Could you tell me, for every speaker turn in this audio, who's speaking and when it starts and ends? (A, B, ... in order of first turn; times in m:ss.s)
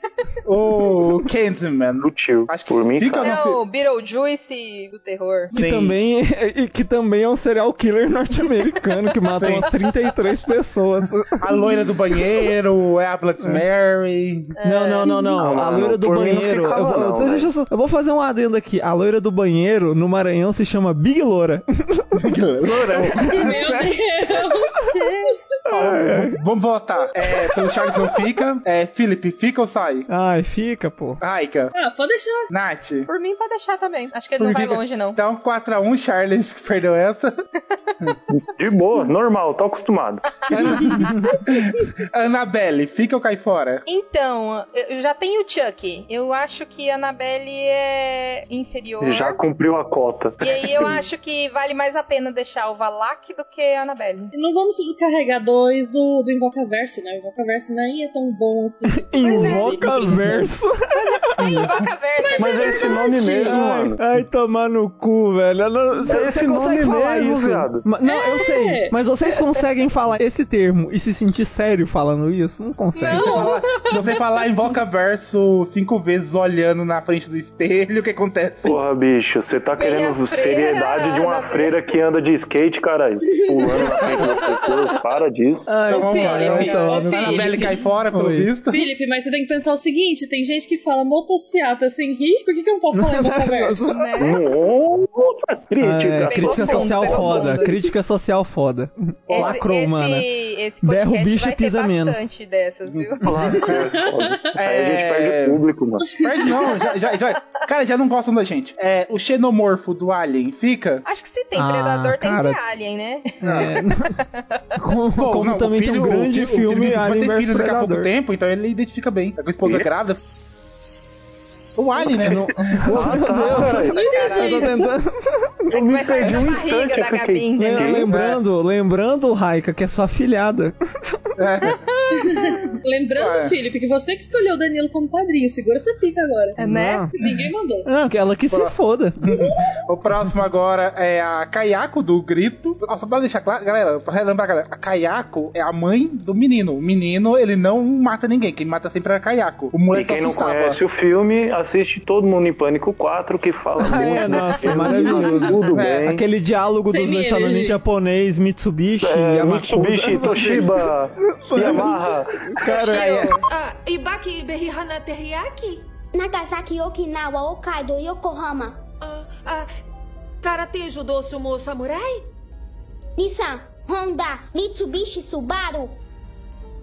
0:00.4-0:03.6 A
0:02.0-0:03.4 B
0:03.2-0:05.6 C
0:05.5-0:06.0 A
0:05.5-0:11.7 D
0:09.3-0:09.7 A
0:11.4-0:14.5 A
0:14.6-0:15.4 C
0:14.6-0:23.9 D
0:15.4-0:17.5 B
0:22.2-0:23.5 A
0:23.3-0:24.8 E
0:24.9-0:25.3 C
0:25.7-0:26.4 D
0:25.7-0:30.1 A
0:27.8-0:28.1 E
0:30.1-0:31.2 D
0:31.2-0:31.7 A
0:31.8-0:32.5 E
0:32.5-0:33.1 A
0:33.1-0:35.2 C
0:34.4-0:37.3 A
0:38.3-0:40.8 B
0:40.5-0:43.8 A
0:43.9-0:49.4 C
0:49.0-0:51.0 B
0:50.4-0:54.3 C
0:54.3-1:00.5 E
0:59.0-1:01.7 D
0:59.2-1:00.0 C
1:00.9-1:03.4 C
1:02.4-1:04.0 B
1:02.8-1:03.6 E
1:03.4-1:13.5 D
1:06.1-1:07.8 B
1:08.1-1:08.9 E
1:13.0-1:14.1 C
1:13.0-1:14.2 E
1:13.1-1:18.8 A
1:18.6-1:25.7 B
1:19.8-1:21.8 C
1:23.3-1:24.1 E
1:25.7-1:28.5 D
1:25.9-1:27.8 E
1:25.9-1:28.9 A
1:26.0-1:27.1 C
1:28.7-1:34.0 E
1:32.9-1:34.0 D
1:33.9-1:34.4 C
1:34.2-1:37.5 B
1:35.8-1:40.3 D
1:36.3-1:37.7 C
1:39.3-1:43.3 C
1:40.8-1:42.3 D
1:42.9-1:43.8 A
1:43.2-1:46.1 B
1:43.5-1:44.6 E
1:44.6-1:45.6 A
1:46.0-1:46.8 E
1:46.2-1:51.0 A
1:51.0-1:54.6 C
1:51.6-1:52.6 D
1:53.4-1:54.2 D
1:53.4-1:53.7 A
1:54.8-1:58.1 D
1:55.2-2:00.2 A
2:01.8-2:03.2 A
2:02.0-2:05.5 D
2:02.2-2:04.0 B
2:03.4-2:04.7 C
2:03.7-2:04.9 E
2:05.7-2:08.1 C
2:05.7-2:08.1 B
2:07.6-2:11.3 D
2:08.1-2:08.4 A
2:11.4-2:11.8 A
2:11.8-2:12.6 C
2:12.2-2:16.6 E
2:13.2-2:13.6 A
2:16.6-2:17.1 D
2:16.6-2:17.1 C
2:17.1-2:17.9 E
2:17.8-2:19.4 D
2:19.2-2:30.8 A
2:29.9-2:36.2 B
2:33.8-2:43.3 D
2:34.7-2:35.5 E
2:35.7-2:36.2 A
2:36.9-2:37.8 E
2:39.0-2:42.5 B
2:40.2-2:40.6 A
2:42.6-2:43.4 C
2:43.4-2:45.8 F
2:46.1-2:48.8 G
2:49.0-2:49.7 F
2:50.4-2:52.2 F
2:53.2-2:56.0 G